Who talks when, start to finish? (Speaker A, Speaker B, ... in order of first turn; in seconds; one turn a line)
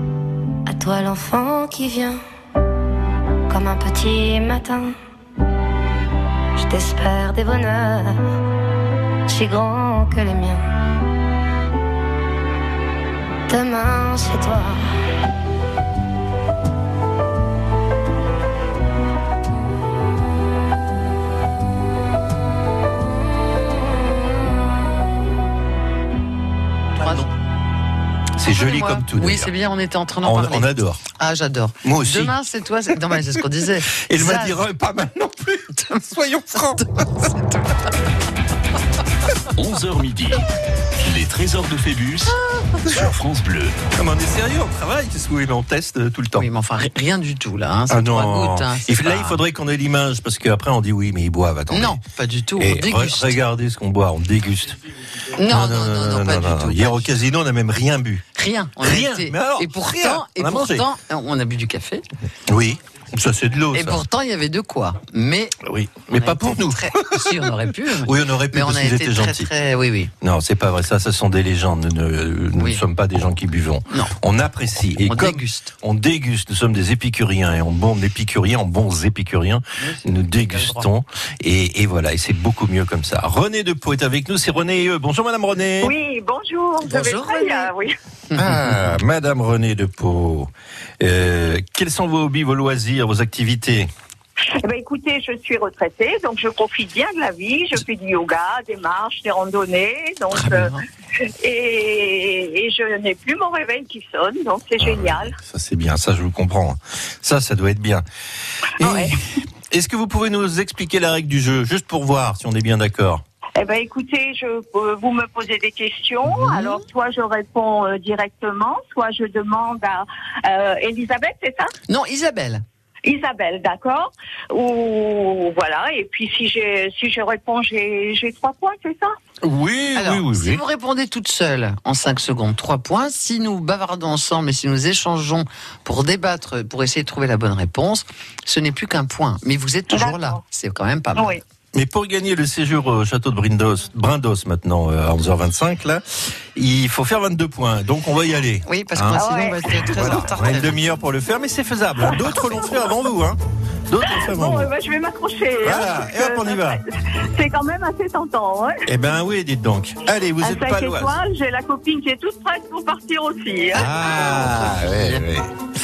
Speaker A: 0.7-2.2
Speaker A: 3.5-4.9
Speaker A: 6.6-8.2
Speaker A: 9.3-10.6
Speaker A: 13.5-14.9
Speaker B: 27.0-27.2
Speaker C: 28.4-29.5
Speaker B: 28.4-34.6
Speaker C: 30.2-31.0
Speaker C: 31.8-32.4
Speaker C: 34.1-36.9
Speaker B: 36.5-37.4
Speaker D: 39.6-40.5
Speaker D: 41.0-43.8
Speaker C: 43.9-46.5
Speaker B: 46.4-49.4
Speaker C: 47.9-52.0
Speaker B: 51.7-53.4
Speaker C: 52.6-54.8
Speaker B: 55.4-57.1
Speaker C: 55.4-58.2
Speaker B: 58.4-62.0
Speaker C: 58.8-60.8
Speaker C: 62.5-64.0
Speaker B: 63.7-65.6
Speaker C: 65.6-67.2
Speaker B: 66.2-70.1
Speaker C: 68.0-69.5
Speaker C: 70.2-85.9
Speaker B: 75.0-75.7
Speaker B: 79.8-80.9
Speaker E: 85.8-87.9
Speaker B: 86.8-87.7
Speaker B: 88.3-88.8
Speaker C: 88.3-93.9
Speaker E: 94.6-100.8
Speaker B: 100.5-100.8
Speaker E: 101.4-105.3
Speaker C: 104.8-108.0
Speaker E: 108.8-109.2
Speaker C: 108.8-109.2
Speaker C: 109.7-113.2
Speaker E: 113.6-121.7
Speaker B: 116.4-116.8
Speaker B: 121.9-122.6
Speaker E: 123.0-129.1
Speaker C: 129.4-130.6
Speaker B: 129.9-141.3
Speaker E: 139.9-140.4
Speaker E: 141.2-141.4
Speaker C: 141.7-146.0
Speaker C: 146.6-149.2
Speaker B: 148.7-150.8
Speaker E: 149.1-150.2
Speaker C: 149.9-154.7
Speaker E: 152.1-152.8
Speaker E: 154.0-158.9
Speaker C: 155.6-156.8
Speaker C: 158.9-161.2
Speaker E: 160.4-163.9
Speaker C: 163.7-165.5
Speaker B: 163.9-165.2